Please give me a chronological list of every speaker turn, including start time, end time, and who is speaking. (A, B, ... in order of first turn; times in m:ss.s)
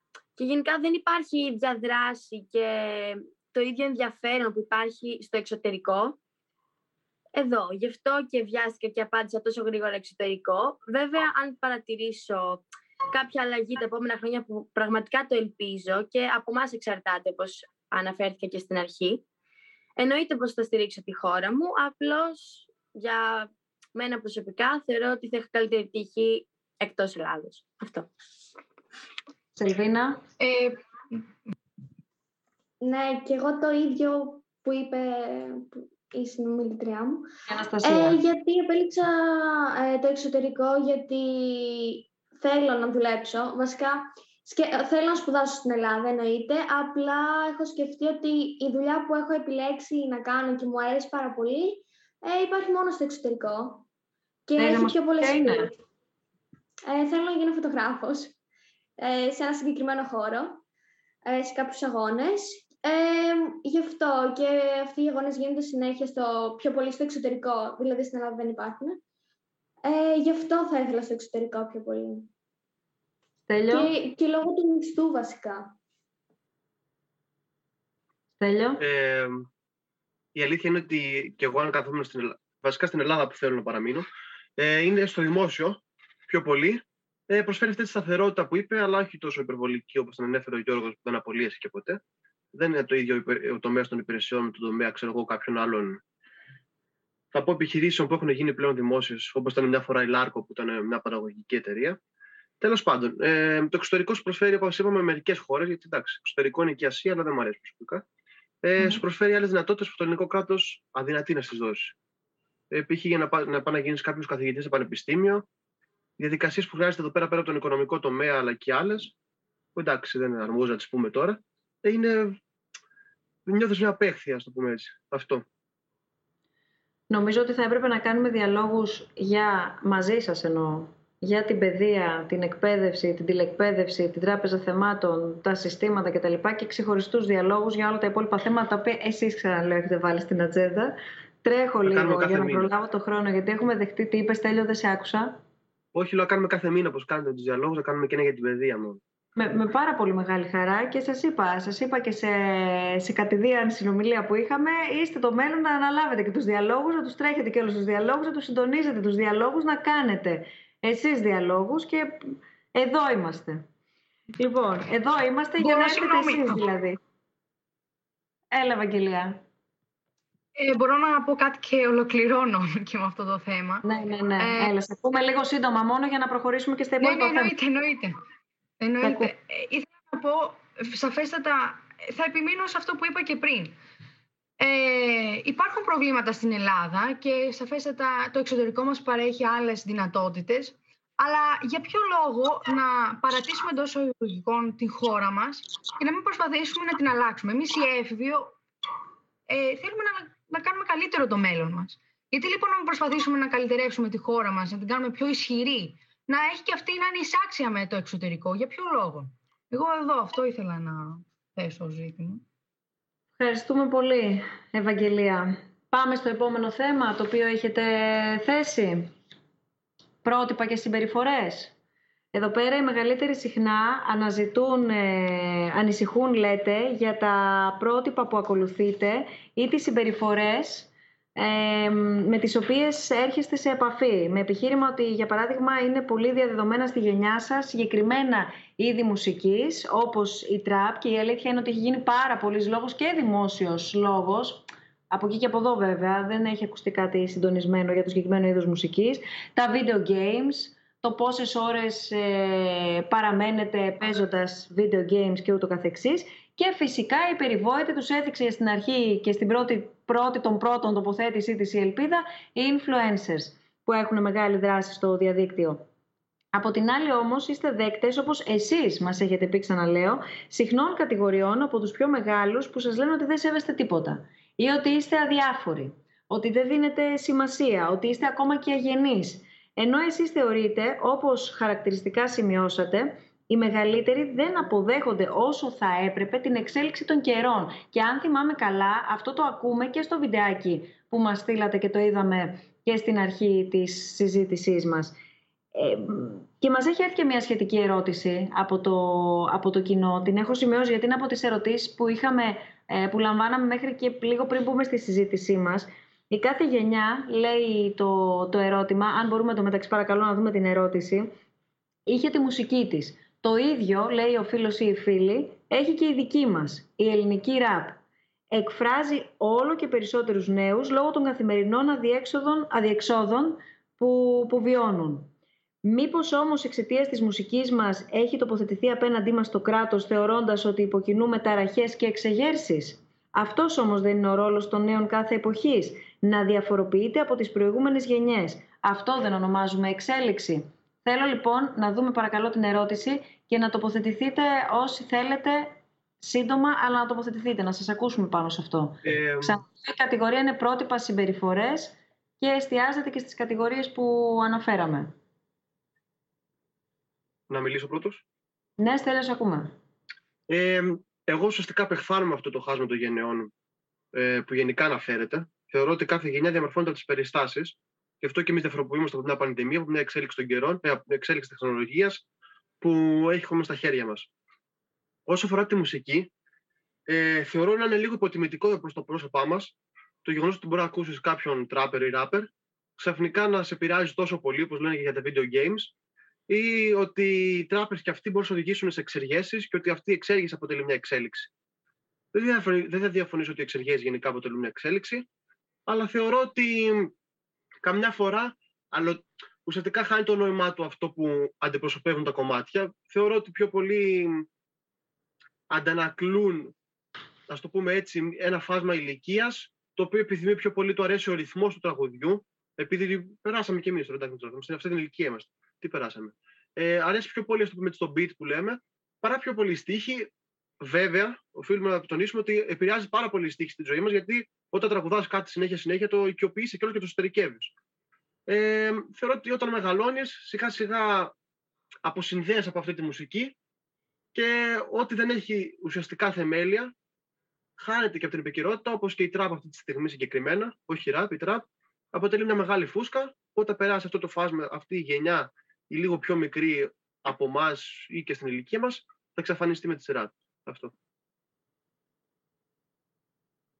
0:00.4-0:06.2 A
0:07.4-0:19.2 A
0:20.0-0:28.1 A
0:29.5-0:30.2 B
0:30.4-0:30.8 C
0:32.8-0:37.2 D
0:37.5-0:38.2 B
0:37.8-0:53.8 D
0:54.5-0:55.7 D
0:54.6-0:55.7 B
0:56.9-0:58.4 D
0:59.0-1:00.6 D
1:01.2-1:09.0 D
1:09.8-1:12.3 D
1:13.5-1:13.9 B
1:13.7-1:15.7 D
1:18.4-1:18.8 B
1:18.8-1:19.5 E
1:20.3-1:32.0 E
1:32.5-1:36.0 E
1:37.3-1:42.0 E
1:42.6-1:48.0 E
1:48.6-1:51.9 E
1:52.7-1:55.4 E
1:56.2-1:59.1 E
1:59.8-2:02.4 E
2:03.4-2:05.4 E
2:07.1-2:25.4 B
2:21.8-2:22.7 E
2:25.9-2:29.0 E
2:29.4-2:43.6 B
2:44.4-2:47.0 B
2:45.6-2:46.6 C
2:48.5-2:49.4 B
2:50.6-2:53.8 C
2:53.8-2:57.5 B
2:54.4-2:54.7 C
2:57.0-2:58.2 C
2:58.8-3:03.8 C
2:59.0-2:59.3 B
3:04.6-3:18.5 C
3:19.5-3:32.4 C
3:33.4-3:39.1 B
3:40.2-3:41.7 B
3:42.3-4:25.8 B
4:26.5-4:55.2 B
4:55.7-5:11.3 B
5:12.1-5:18.0 B
5:18.5-5:25.3 B
5:25.8-5:55.1 B
5:49.0-5:49.6 E
5:57.5-5:58.2 E
5:58.8-5:59.7 B
6:00.5-6:03.5 E
6:04.1-6:12.2 E
6:12.8-6:14.3 E
6:15.3-6:16.3 E
6:17.1-6:25.9 E
6:26.5-6:31.5 E
6:32.3-6:35.2 E
6:35.9-6:37.1 E
6:37.8-6:44.5 E
6:45.7-6:46.7 E
6:47.5-7:00.3 E
7:00.8-7:07.7 E
7:08.5-7:11.3 E
7:12.0-7:13.5 E
7:14.3-7:16.9 E
7:17.8-7:30.9 E